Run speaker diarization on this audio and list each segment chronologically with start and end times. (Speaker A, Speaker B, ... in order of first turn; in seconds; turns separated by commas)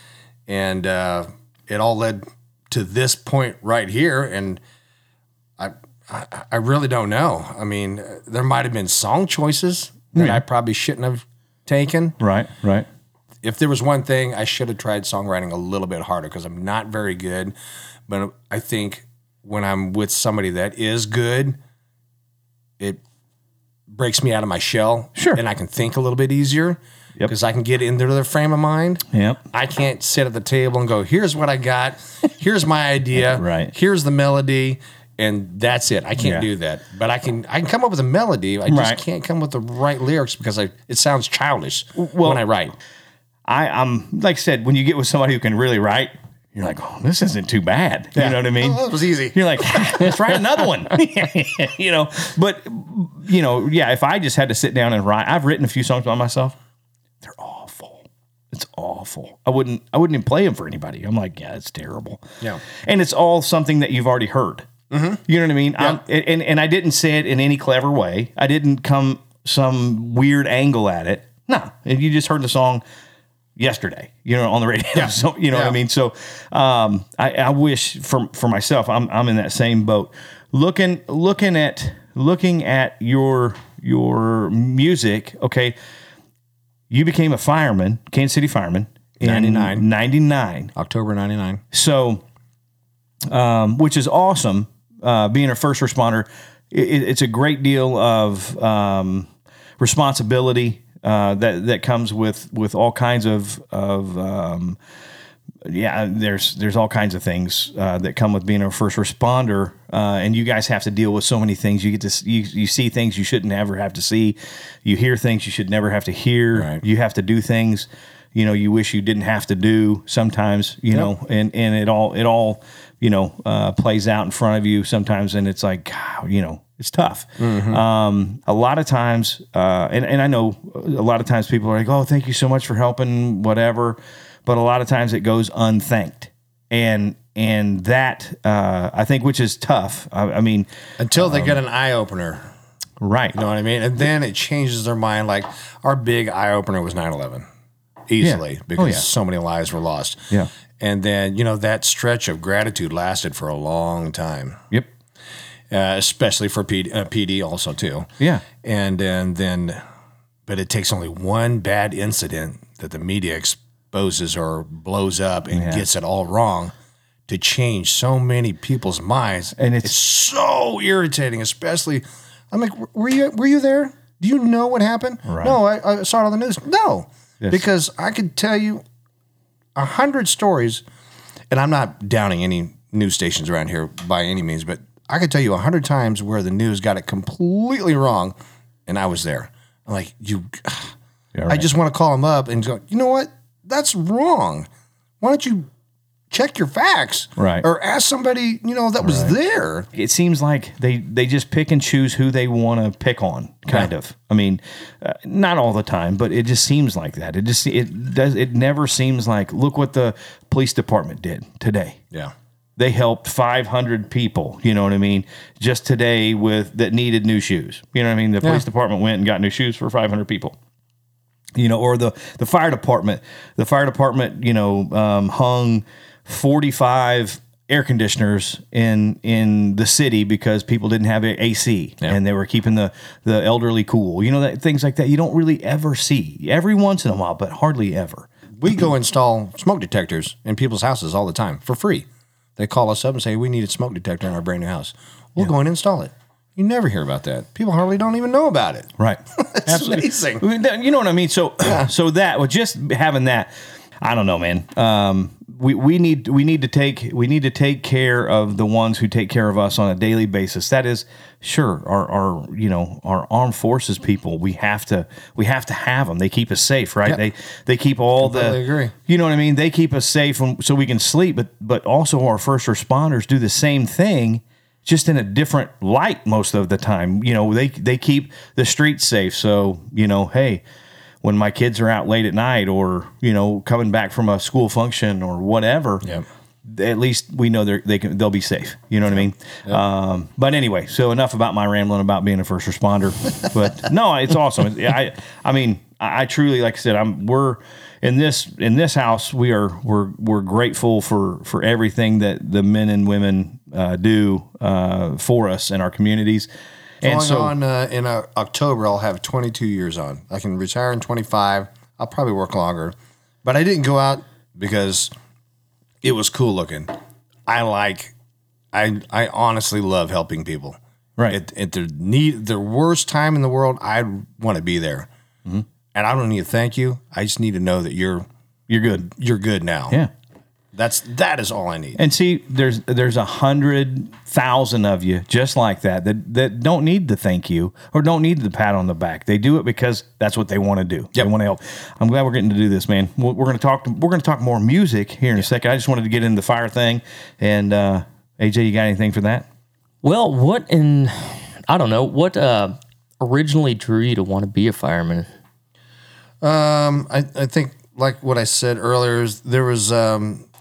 Speaker A: 0.5-4.6, Speaker A: 5.6-12.2, Speaker B: 10.1-10.4, Speaker B: 12.2-12.9, Speaker A: 13.4-17.5, Speaker A: 18.1-21.6, Speaker A: 23.9-42.8, Speaker B: 25.1-25.4, Speaker B: 29.1-29.4, Speaker B: 33.2-33.7, Speaker B: 36.2-36.5, Speaker B: 38.7-39.0, Speaker B: 42.0-42.4, Speaker B: 43.5-56.5, Speaker A: 48.1-50.1, Speaker B: 57.2-62.2, Speaker B: 62.8-64.7, Speaker A: 64.9-65.2, Speaker B: 65.2-72.8, Speaker B: 73.6-85.8, Speaker A: 74.9-75.8, Speaker B: 86.9-90.7, Speaker A: 89.2-89.9, Speaker A: 90.8-91.6, Speaker B: 91.7-92.2, Speaker B: 93.3-104.8, Speaker B: 105.6-141.6, Speaker A: 116.5-116.8, Speaker A: 127.4-127.8, Speaker A: 141.0-142.5, Speaker B: 143.0-143.4, Speaker A: 143.3-147.5, Speaker A: 148.1-154.6, Speaker B: 148.2-149.1, Speaker A: 155.7-159.8, Speaker A: 160.5-166.7, Speaker B: 165.5-165.8, Speaker A: 167.3-178.8, Speaker B: 169.6-170.0, Speaker B: 175.2-175.6, Speaker A: 179.8-180.8, Speaker A: 181.5-188.3, Speaker A: 188.9-190.9, Speaker B: 191.3-191.7, Speaker A: 191.5-194.7, Speaker A: 195.2-195.7, Speaker A: 196.3-199.9, Speaker B: 197.4-197.7, Speaker B: 199.0-199.3, Speaker B: 199.9-212.0, Speaker B: 212.8-220.6, Speaker B: 221.6-238.3, Speaker A: 238.6-250.4, Speaker B: 249.0-280.6, Speaker A: 251.6-251.9, Speaker A: 268.2-268.9, Speaker B: 281.2-286.1, Speaker B: 286.6-306.5, Speaker A: 289.1-289.8, Speaker B: 307.0-307.5, Speaker A: 307.0-315.1, Speaker A: 316.0-316.9, Speaker A: 317.5-318.1, Speaker A: 318.7-320.8, Speaker A: 321.3-325.1, Speaker A: 325.9-328.2, Speaker B: 328.7-329.1, Speaker A: 329.1-330.0, Speaker A: 330.7-332.0, Speaker B: 332.0-349.5, Speaker C: 350.0-355.3, Speaker A: 356.4-360.5